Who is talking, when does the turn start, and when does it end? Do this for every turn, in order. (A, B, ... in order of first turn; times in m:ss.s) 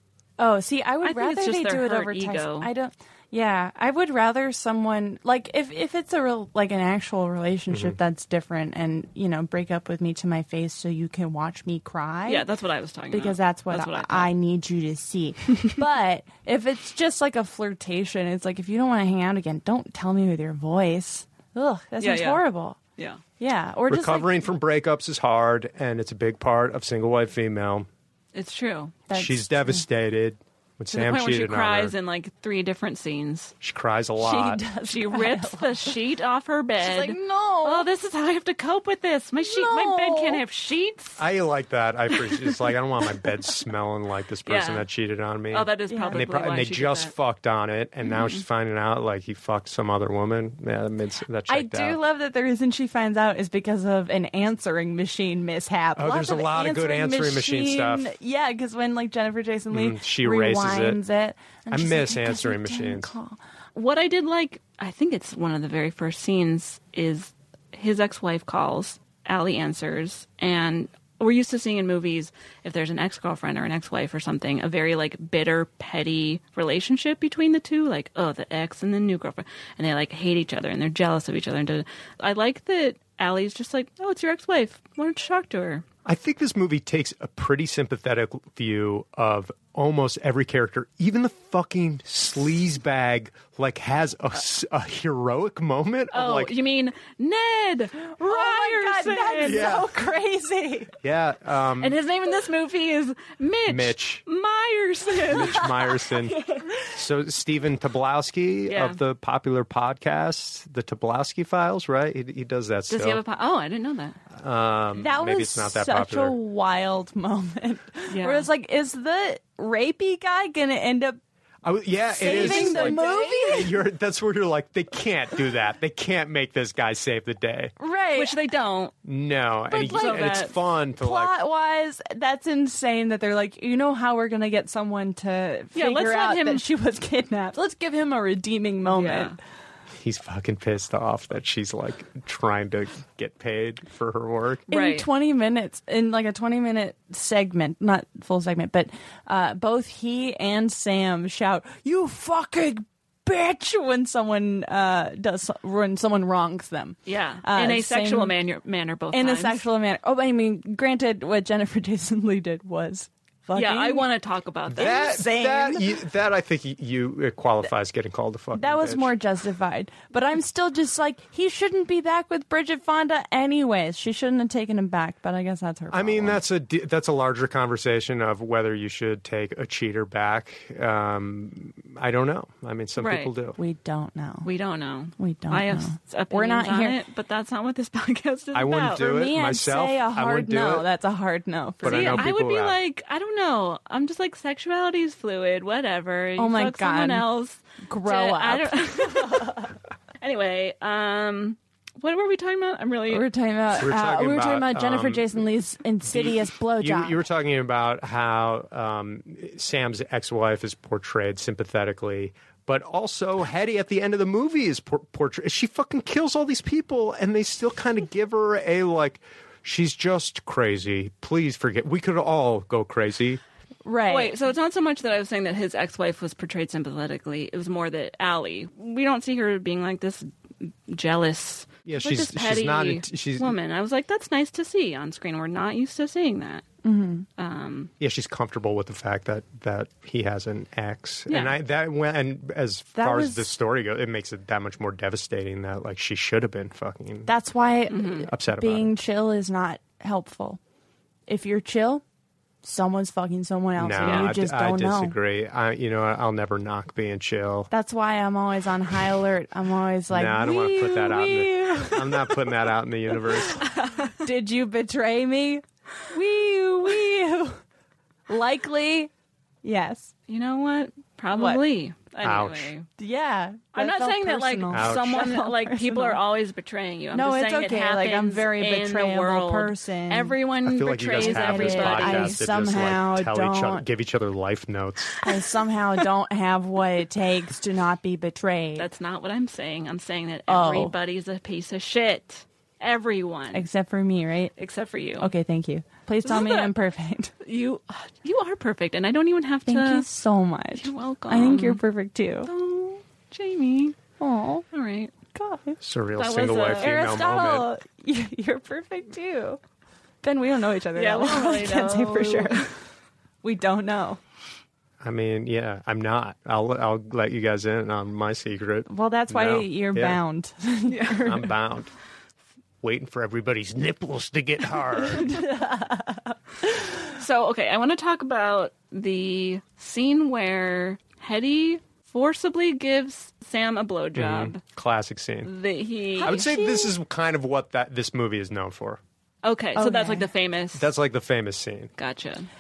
0:00.4-0:12.4 A
0:01.0-0:02.7 B
0:07.7-0:08.0 C
0:12.3-0:14.3 B
0:13.1-0:22.8 A
0:22.0-0:22.4 B
0:23.4-0:24.3 A
0:23.9-0:27.9 C
0:28.3-0:29.0 B
0:29.1-0:29.8 A
0:29.1-0:31.9 C
0:30.9-0:33.5 B
0:33.6-0:34.6 C
0:34.2-0:35.9 A
0:34.9-0:41.2 B
0:36.8-0:37.9 A
0:39.4-0:40.4 A
0:41.2-0:52.0 C
0:44.5-0:44.9 B
0:45.5-0:47.1 B
0:45.9-0:46.2 A
0:48.0-0:48.4 B
0:51.5-1:03.4 A
0:56.0-0:58.2 C
0:59.7-1:01.0 C
1:01.7-1:03.2 C
1:03.8-1:25.8 B
1:26.0-1:36.5 C
1:36.1-1:39.8 B
1:38.2-1:40.9 A
1:39.4-1:39.9 C
1:41.0-1:42.0 C
1:41.8-1:46.0 B
1:43.7-1:44.2 C
1:45.3-1:46.4 C
1:46.9-1:53.2 C
1:48.7-1:49.0 B
1:52.9-1:54.2 B
1:54.3-1:56.4 C
1:55.0-2:01.2 A
1:58.1-1:58.5 B
2:01.6-2:07.7 C
2:02.2-2:03.7 A
2:02.2-2:03.6 B
2:07.8-2:08.4 A
2:08.2-2:08.9 B
2:09.0-2:11.4 C
2:09.7-2:19.4 A
2:09.9-2:10.5 B
2:15.8-2:16.6 B
2:18.9-2:19.4 B
2:20.0-2:24.7 C
2:24.7-2:25.1 B
2:24.7-2:38.3 A
2:37.1-2:39.6 B
2:39.1-2:44.1 A
2:43.6-2:45.1 B
2:44.7-2:49.1 C
2:44.8-2:45.9 A
2:48.5-2:56.4 A
2:55.9-3:03.6 C
3:03.0-3:03.3 B
3:03.6-3:04.5 A
3:04.4-3:09.0 B
3:05.2-3:07.0 A
3:08.5-3:10.9 C
3:09.0-3:12.3 A
3:11.8-3:12.8 C
3:11.8-3:19.7 B
3:16.4-3:17.3 A
3:17.8-3:19.7 A
3:20.2-3:23.3 B
3:23.1-3:27.2 A
3:23.7-3:25.4 C
3:26.0-3:43.4 C
3:43.8-3:44.4 A
3:44.1-3:56.6 B
3:51.9-3:53.5 C
3:56.8-3:57.3 A
3:57.4-3:57.9 B
3:58.0-4:07.3 C
4:01.3-4:01.6 B
4:03.0-4:03.5 A
4:07.3-4:10.6 A
4:07.9-4:08.3 B
4:08.2-4:09.0 C
4:11.3-4:12.0 A
4:12.6-4:15.2 A
4:13.8-4:17.7 C
4:14.0-4:14.3 B
4:17.7-4:22.3 A
4:20.1-4:23.6 C
4:23.6-4:24.2 B
4:24.2-4:27.6 A
4:28.3-4:29.1 A
4:29.6-4:30.1 A
4:30.3-4:32.9 B
4:31.3-4:31.6 A
4:32.2-4:32.7 C
4:33.0-4:36.2 A
4:33.8-4:42.4 B
4:34.7-4:35.2 C
4:37.1-4:40.4 A
4:40.6-4:45.2 C
4:41.2-4:43.8 A
4:45.2-4:48.9 A
4:48.8-4:53.7 B
4:50.5-4:51.0 A
4:53.5-4:54.6 A
4:54.6-4:55.3 B
4:55.2-4:57.3 A
4:56.2-4:56.7 B
4:57.4-5:00.1 B
4:59.7-5:02.5 A
5:00.8-5:01.8 B
5:02.4-5:04.0 B
5:04.2-5:04.6 A
5:04.7-5:05.1 B
5:05.3-5:05.8 A
5:05.8-5:07.7 C
5:06.2-5:07.2 B
5:06.8-5:09.6 A
5:10.2-5:12.7 A
5:11.0-5:12.7 B
5:13.4-5:14.2 A
5:15.0-5:20.2 C
5:18.9-5:21.5 A
5:20.9-5:21.2 B
5:21.2-5:21.9 C
5:22.8-5:25.3 C
5:25.1-5:26.3 A
5:27.1-5:34.6 B
5:34.2-5:35.5 C
5:35.4-5:36.5 B
5:36.2-5:36.9 A
5:36.2-5:39.0 C
5:39.4-5:40.9 B
5:39.8-5:40.3 A
5:40.7-5:41.9 C
5:42.0-5:42.5 B